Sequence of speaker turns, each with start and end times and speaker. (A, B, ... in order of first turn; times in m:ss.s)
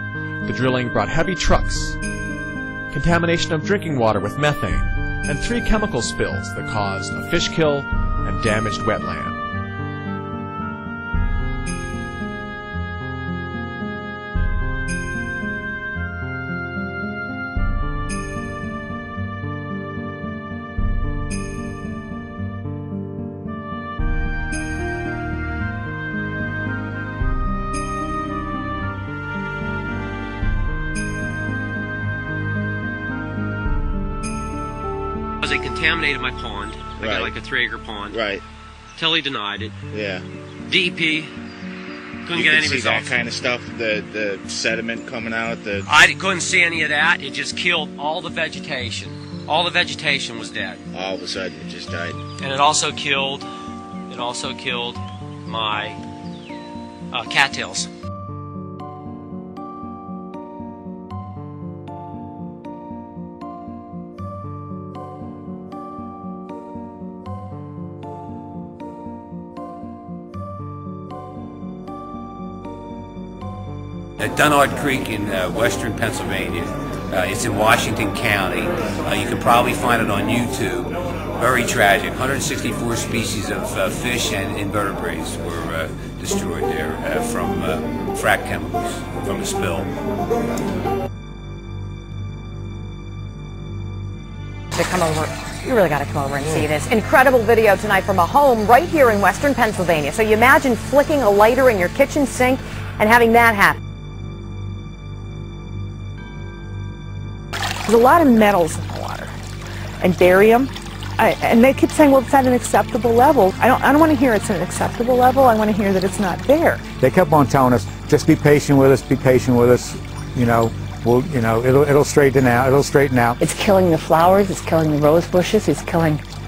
0:00.4-0:02.0 A
0:02.9-0:09.4 A
0:35.4-0:38.2 B
0:37.0-0:37.4 C
0:38.1-0:38.4 C
0:39.0-0:39.7 B
0:39.9-0:40.2 C
0:40.6-0:41.3 B
0:42.3-0:43.1 B
0:42.3-0:46.0 C
0:45.9-0:50.8 B
0:50.9-0:52.2 C
0:52.4-0:53.5 B
0:54.1-0:56.0 B
0:57.1-0:57.9 B
1:14.2-1:29.9 D
1:34.8-1:43.8 E
1:47.8-1:49.3 F
1:50.0-1:56.8 F
1:57.0-2:03.4 G
2:03.4-2:06.2 H